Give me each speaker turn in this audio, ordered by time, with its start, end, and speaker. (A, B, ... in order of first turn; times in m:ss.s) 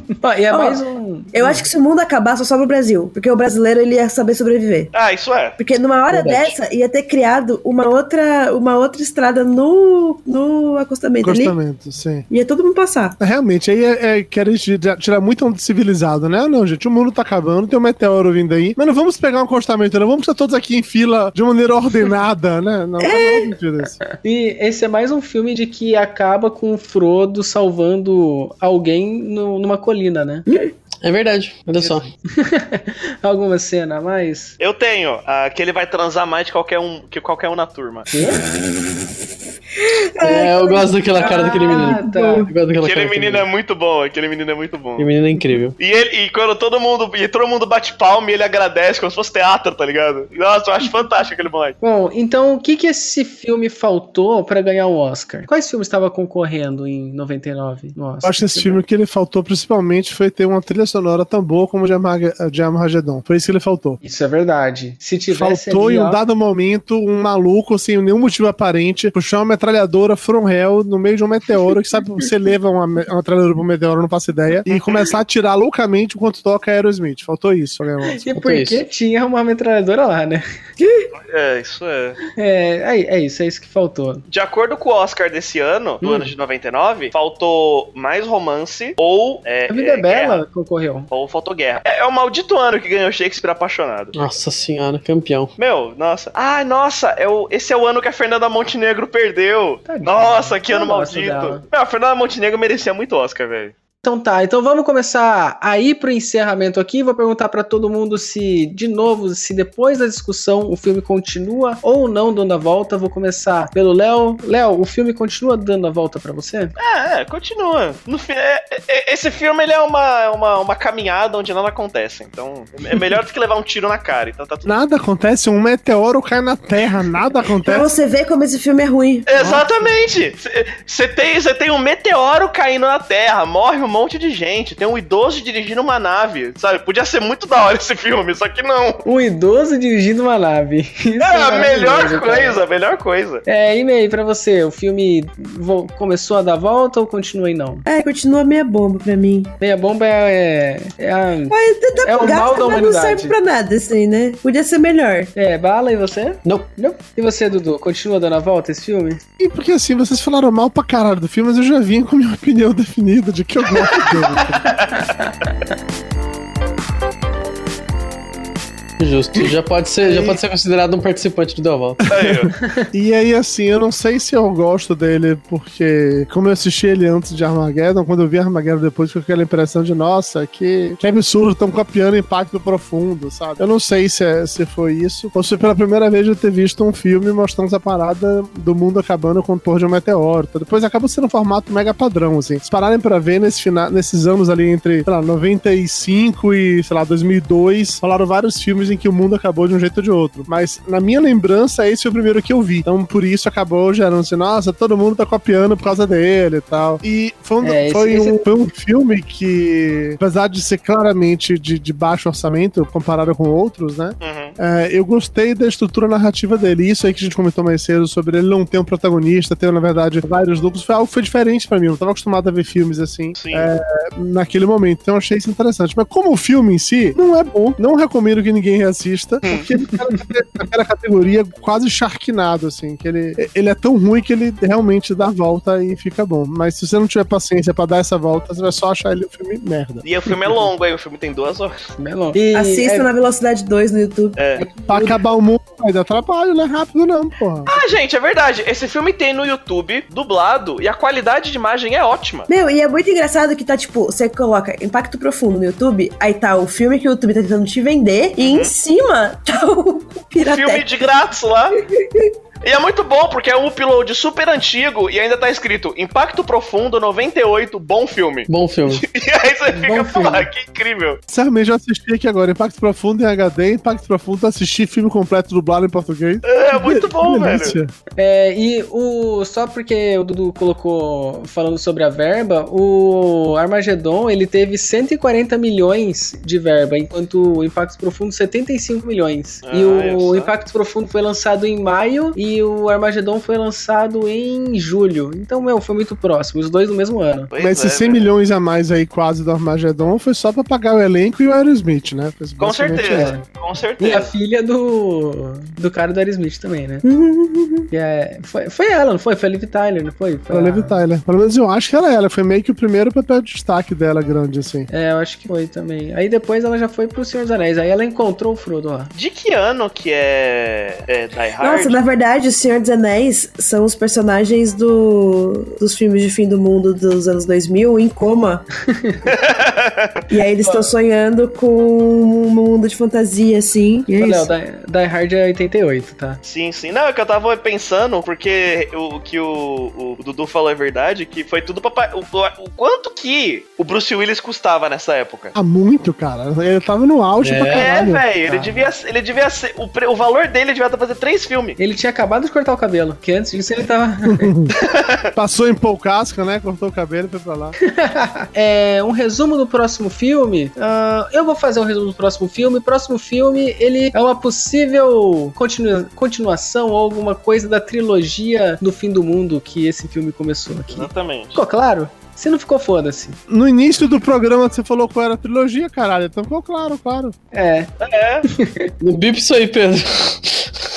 0:00.1-0:01.7 A
0:00.5-0:00.8 B
0:01.3-0:04.9 B
0:04.9-0:05.6 C
0:05.6-0:11.6 B
0:11.2-0:12.3 D
0:12.3-0:13.2 B
0:13.2-0:24.0 D
0:23.0-0:23.5 B
0:24.1-0:30.5 A
0:31.0-0:32.1 E
0:31.8-0:34.6 A
0:34.6-0:38.1 C
0:38.1-0:38.5 A
0:39.8-0:42.5 B
0:40.2-0:43.5 E
0:41.2-0:42.5 A
0:42.8-0:45.1 C
0:45.0-0:45.8 E
0:45.8-0:51.8 C
0:51.8-0:58.8 A
0:58.2-1:04.0 D
1:04.0-1:06.2 A
1:05.3-1:18.3 D
1:14.7-1:15.1 C
1:18.1-1:20.4 A
1:18.3-1:18.8 E
1:21.2-1:22.2 C
1:22.4-1:24.2 A
1:24.3-1:30.4 C
1:26.0-1:26.3 A
1:29.7-1:31.1 A
1:31.1-1:34.2 C
1:34.1-1:35.5 E
1:35.6-1:43.7 C
1:39.9-1:41.6 A
1:44.0-1:56.7 A
1:56.8-2:04.7 C
2:04.7-2:07.9 D
2:07.6-2:09.3 B
2:09.3-2:19.0 C
2:09.4-2:09.8 A
2:19.0-2:22.6 A
2:21.2-2:23.4 C
2:23.5-2:27.8 A
2:27.9-2:29.6 B
2:29.6-2:33.4 A
2:31.5-2:35.3 B
2:35.4-2:39.2 A
2:39.4-2:44.8 D
2:44.7-2:45.0 C
2:49.0-2:52.0 E
2:50.0-2:50.4 D
2:52.0-4:00.0 D
2:52.1-2:52.5 C
3:27.6-3:28.4 A
3:34.2-3:34.6 C
3:43.4-3:43.7 C
4:00.0-4:01.9 C
4:02.0-4:03.1 A
4:02.5-4:04.4 B
4:04.4-4:04.7 C
4:04.6-4:05.2 A
4:04.8-4:07.7 D
4:07.7-4:12.5 C
4:12.5-4:20.9 B
4:18.4-4:18.7 C
4:20.4-4:21.8 C
4:22.0-4:22.3 B
4:22.6-4:31.2 C
4:28.5-4:29.0 E
4:29.7-4:30.5 A
4:31.3-4:37.9 D
4:36.4-4:37.8 C
4:38.2-4:57.5 A
4:49.6-4:50.5 C
4:57.5-4:58.3 C
4:57.6-5:03.4 D
5:02.6-5:04.3 C
5:03.1-5:03.4 A
5:04.0-5:07.0 A
5:07.0-5:07.9 B
5:07.9-5:11.0 A
5:10.5-5:14.9 D
5:14.9-5:19.1 A
5:19.2-5:22.0 C
5:21.6-5:28.6 B
5:29.2-5:30.2 C
5:30.3-5:34.5 B
5:30.6-5:30.9 A
5:34.2-5:36.4 A
5:36.4-5:45.5 C
5:45.5-5:48.3 D
5:47.4-5:47.9 E
5:47.7-5:51.8 C
5:48.4-5:48.9 A
5:51.8-5:54.5 A
5:54.2-5:54.8 D
5:54.8-5:55.3 C
5:55.4-5:57.8 D
5:57.9-6:13.4 A
6:10.9-6:11.6 C
6:13.5-6:17.4 D
6:17.5-6:17.9 A
6:18.0-6:18.5 C
6:18.5-6:18.9 A
6:19.0-6:20.9 E